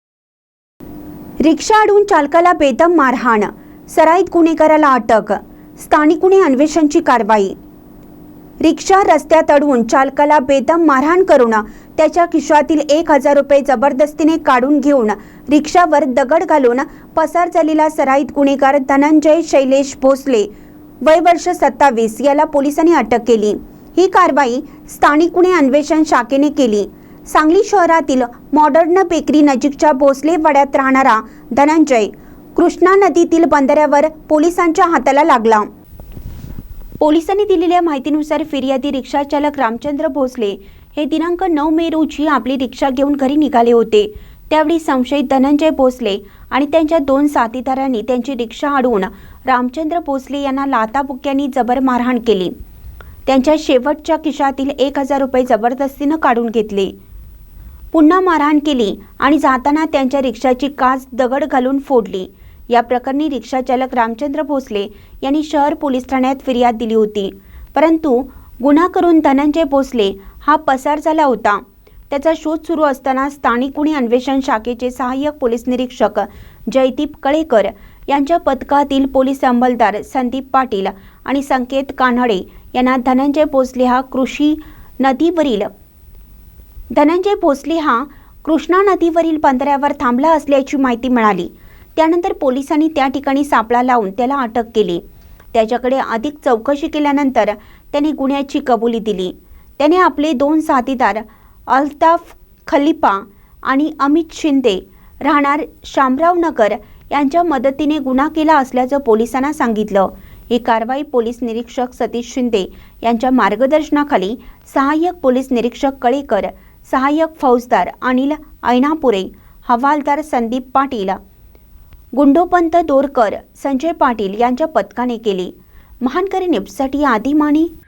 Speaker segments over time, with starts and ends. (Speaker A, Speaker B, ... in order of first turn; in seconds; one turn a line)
Speaker A: 1.4-7.6
Speaker A: 8.6-20.5
Speaker A: 21.0-35.7
Speaker A: 37.0-52.5
Speaker A: 53.3-56.9
Speaker A: 57.9-85.7
Speaker A: 86.9-95.0
Speaker A: 95.5-121.2
Speaker A: 122.2-127.7